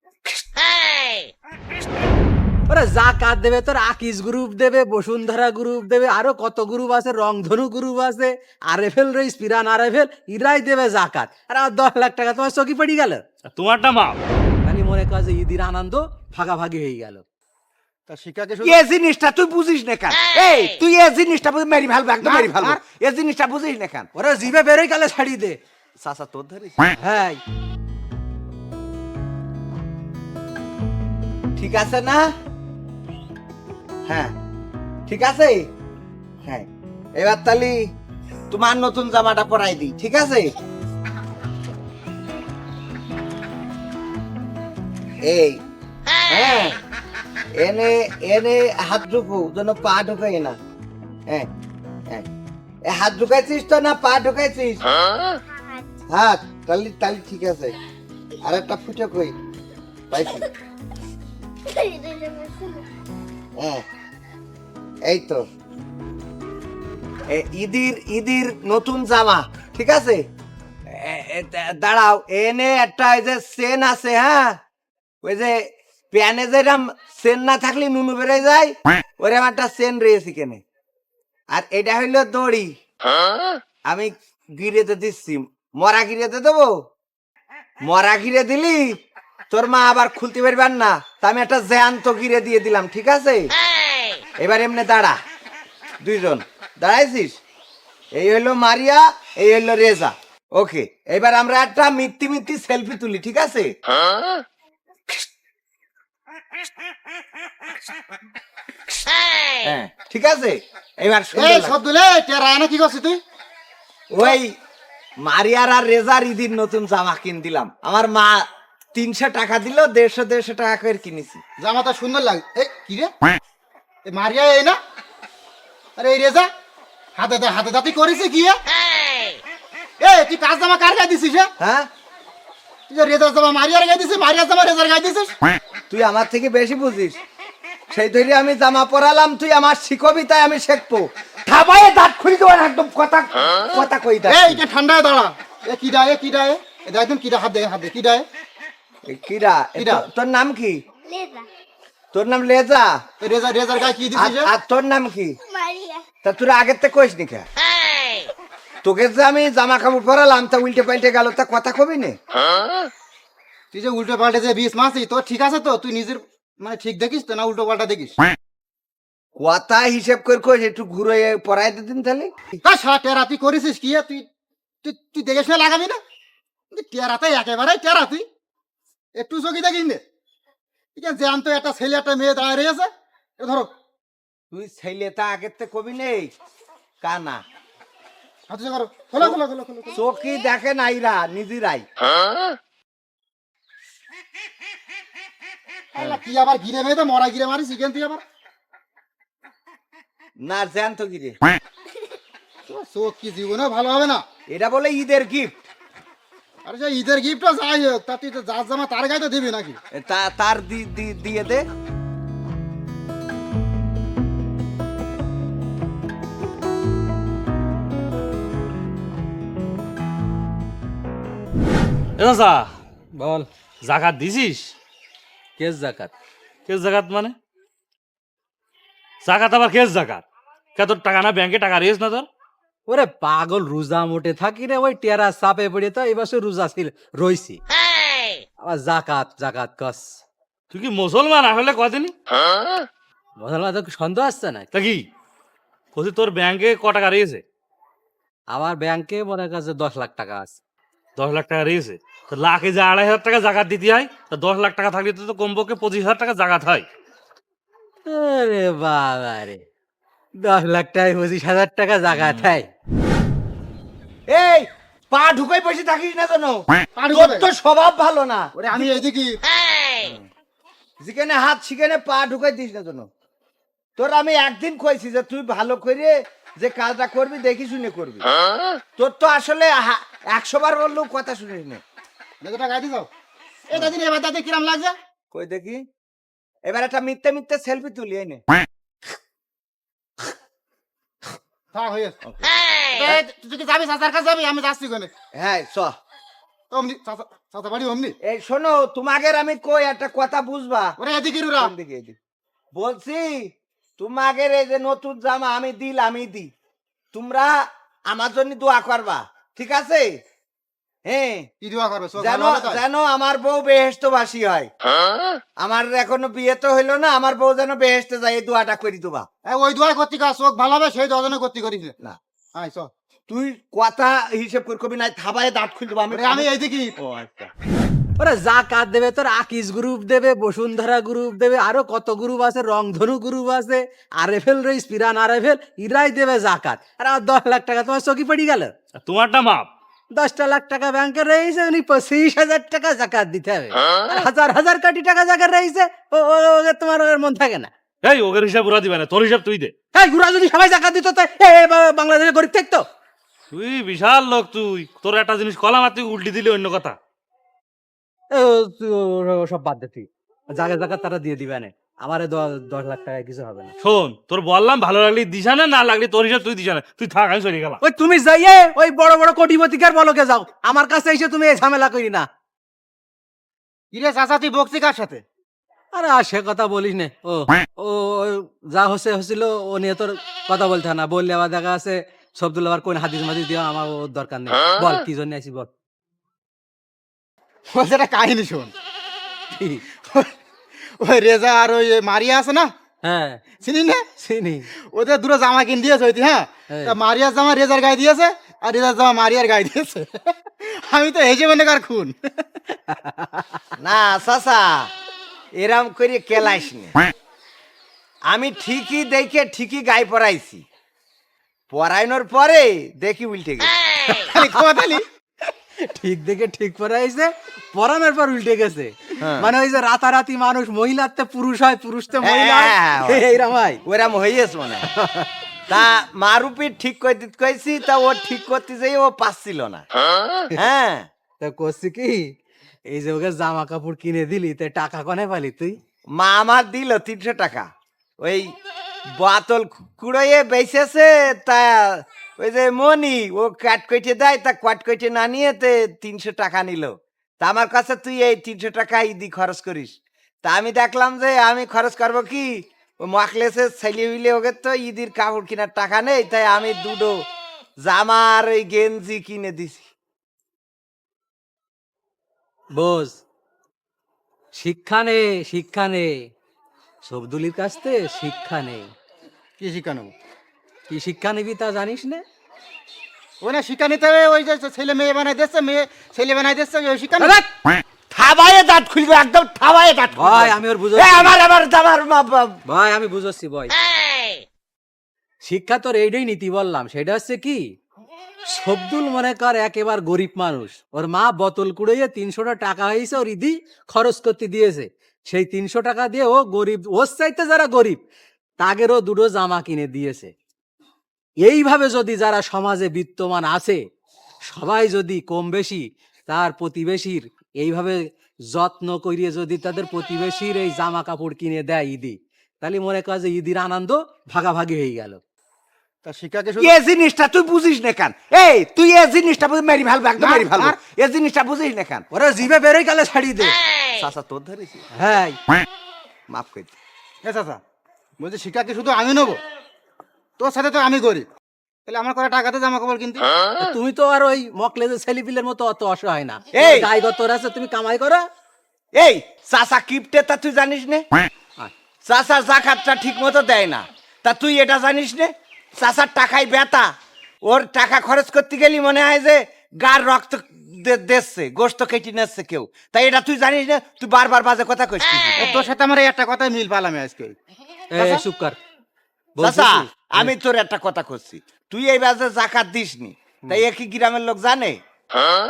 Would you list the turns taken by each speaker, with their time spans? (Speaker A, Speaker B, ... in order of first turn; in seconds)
Speaker A: 2.7-13.2, 14.7-17.2, 24.2-25.6, 27.0-27.4, 223.2-223.5, 225.6-226.1, 232.9-237.6, 238.6-240.2, 243.4-244.7, 248.5-250.6, 258.1-259.6, 260.4-262.7, 328.2-338.7, 340.1-347.7, 349.9-352.9, 358.3-363.7, 367.8-372.3, 375.9-385.7, 389.5-389.9, 393.0-393.5, 394.2-394.7, 396.7-397.0, 402.9-403.4, 415.5-423.8, 425.0-425.3, 431.4-432.3, 432.9-435.8, 462.8-463.2, 464.6-466.3, 467.0-468.9, 470.9-472.2, 477.2-477.5, 480.2-481.4, 482.7-483.8, 485.4-487.6, 488.5-498.0, 498.6-500.3, 501.4-503.8, 504.5-515.2, 522.1-523.6, 525.0-525.4, 533.6-538.2, 557.9-558.6, 559.4-560.3
Speaker B: 13.5-14.2, 222.2-222.7, 223.8-224.7, 226.7-227.4, 229.2-230.2, 230.8-232.3, 240.7-242.1, 244.7-245.1, 245.9-247.4, 251.2-256.9, 339.0-339.7, 348.0-349.7, 353.5-357.0, 363.8-367.8
Speaker C: 18.1-18.8, 22.2-22.8, 111.3-113.2, 121.6-123.1, 124.1-124.8, 126.0-126.5, 127.2-128.6, 130.0-131.5, 132.9-135.4, 144.3-148.3, 149.8-150.1, 153.2-154.5, 163.7-168.2, 172.6-174.3, 174.8-176.0, 176.7-178.2, 179.2-180.0, 181.0-183.7, 188.5-190.0, 196.0-198.2, 202.7-204.2, 206.7-209.8, 267.0-267.5, 268.6-269.4, 282.4-283.1, 283.7-284.9, 291.7-292.2, 292.9-295.1, 296.7-298.1, 301.0-301.7, 311.6-312.8, 319.4-321.9, 322.6-322.9, 326.1-326.9, 373.9-375.2, 387.7-388.7, 390.1-390.3, 391.0-392.7, 393.6-394.1, 394.9-402.1, 414.3-415.1, 469.6-470.1, 473.4-477.4, 516.0-516.7, 520.2-520.8, 527.2-527.6, 528.2-529.4, 530.4-531.3, 531.9-533.3, 555.4-557.4, 558.0-558.2
Speaker D: 18.6-24.1, 26.0-26.8, 31.6-32.3, 35.1-35.7, 36.5-37.8, 38.5-40.5, 45.2-45.6, 46.3-46.8, 47.5-50.6, 52.9-54.8, 56.1-57.7, 58.5-59.3, 60.1-60.5, 63.6-63.8, 65.1-65.4, 67.3-70.2, 70.9-74.6, 75.2-80.6, 81.5-82.7, 83.9-86.7, 87.8-89.0, 89.5-93.5, 94.4-95.2, 96.0-97.4, 98.2-103.7, 109.6-111.8, 114.1-114.5, 115.2-121.4, 131.6-131.9, 135.9-137.2, 137.9-144.6, 149.1-150.8, 152.1-153.0, 154.2-155.4, 156.2-157.5, 158.8-162.2, 169.4-172.3, 184.5-186.3, 187.0-187.4, 189.9-191.9, 200.4-201.4, 204.5-205.5, 209.9-211.6, 264.3-268.5, 270.0-270.2, 271.0-273.1, 274.0-278.3, 279.0-281.8, 285.3-285.8, 286.7-288.4, 292.2-292.5, 295.4-296.0, 298.2-301.0, 301.6-302.2, 302.7-306.5, 307.1-310.2, 311.1-311.5, 312.2-314.7, 315.6-319.3, 323.3-327.5, 403.8-404.9, 405.6-407.0, 408.3-410.6, 411.7-413.7, 419.2-419.5, 422.2-423.2, 423.9-424.9, 425.7-429.9, 430.6-431.1, 436.2-437.7, 438.2-438.5, 439.1-457.2, 457.9-459.9, 478.1-482.6, 516.6-522.1, 523.9-524.8, 526.3-526.8, 536.5-536.9, 539.0-541.0, 542.1-546.9, 547.5-555.5, 559.4-564.8